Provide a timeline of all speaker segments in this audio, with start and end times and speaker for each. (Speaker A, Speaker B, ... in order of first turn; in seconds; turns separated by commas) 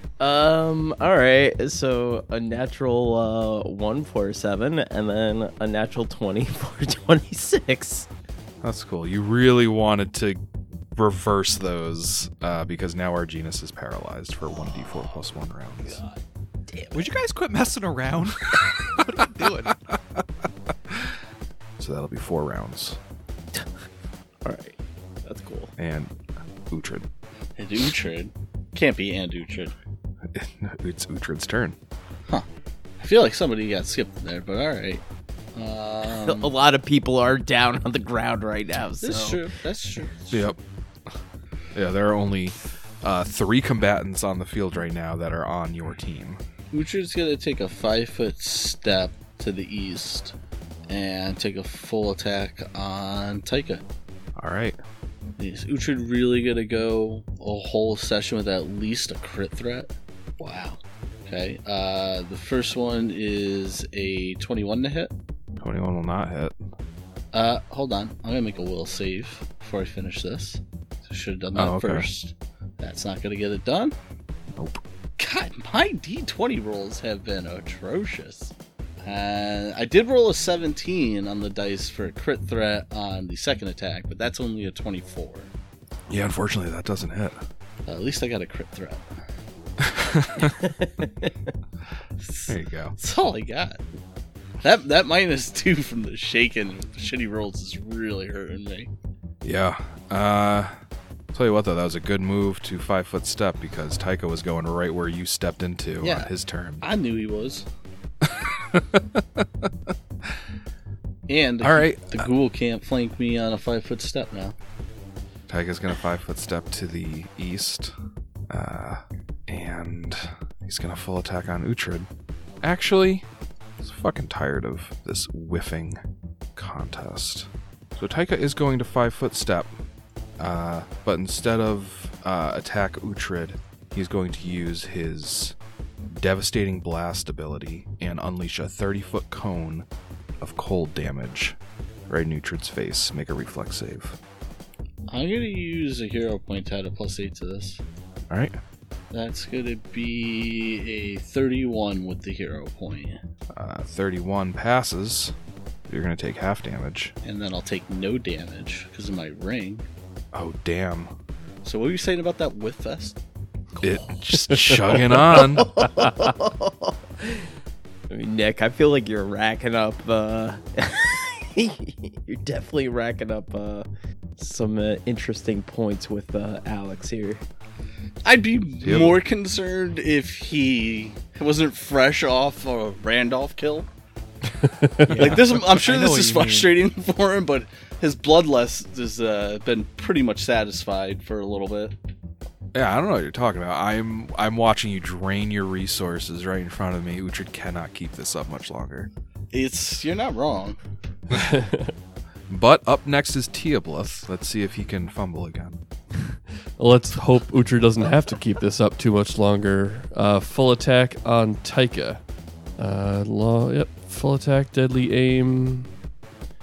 Speaker A: 0.2-8.1, Speaker B: 8.6-10.4, Speaker B: 10.9-16.0, Speaker A: 14.5-15.2, Speaker A: 15.8-16.2, Speaker A: 16.7-17.2, Speaker C: 16.9-19.8, Speaker B: 21.8-23.0, Speaker A: 24.4-25.7, Speaker B: 25.8-26.1, Speaker B: 26.7-27.1, Speaker D: 27.6-29.8, Speaker B: 30.3-31.8, Speaker D: 33.0-35.0, Speaker D: 35.5-36.5, Speaker A: 36.0-39.5, Speaker D: 39.0-40.5, Speaker B: 40.3-40.6, Speaker B: 41.7-46.4, Speaker D: 46.7-50.4, Speaker D: 50.9-53.8, Speaker B: 54.4-54.8, Speaker D: 55.4-65.1, Speaker B: 65.6-66.5, Speaker D: 67.3-73.9, Speaker B: 71.5-72.1, Speaker B: 74.5-74.8, Speaker D: 75.2-85.5, Speaker B: 86.1-87.4, Speaker D: 87.9-89.0, Speaker B: 89.8-90.5, Speaker A: 90.5-91.3, Speaker D: 92.2-93.8, Speaker B: 92.5-93.0, Speaker D: 94.6-98.9, Speaker B: 99.4-100.7, Speaker B: 101.3-106.8, Speaker D: 106.0-106.3, Speaker D: 106.8-107.7, Speaker B: 108.2-109.7, Speaker D: 111.3-114.5, Speaker B: 111.6-112.3, Speaker B: 115.5-117.9, Speaker B: 118.5-122.1, Speaker B: 122.6-123.2, Speaker B: 123.8-126.0, Speaker B: 126.6-129.7, Speaker B: 130.4-135.6, Speaker B: 136.1-139.9, Speaker B: 140.4-144.2, Speaker D: 145.1-147.8, Speaker B: 148.3-148.6, Speaker D: 149.1-153.2, Speaker B: 153.6-155.3, Speaker B: 155.9-157.1, Speaker D: 157.2-159.9, Speaker B: 160.3-161.1, Speaker D: 161.7-163.2, Speaker B: 163.8-165.7, Speaker E: 164.5-165.0, Speaker A: 165.3-167.5, Speaker A: 168.1-173.9, Speaker A: 174.4-177.4, Speaker D: 178.2-183.9, Speaker B: 178.8-179.2, Speaker E: 184.8-185.1, Speaker C: 185.1-186.7, Speaker D: 185.1-191.9, Speaker B: 192.7-199.1, Speaker D: 199.5-200.8, Speaker E: 201.3-201.9, Speaker B: 202.5-205.8, Speaker E: 206.8-212.2, Speaker E: 212.8-215.9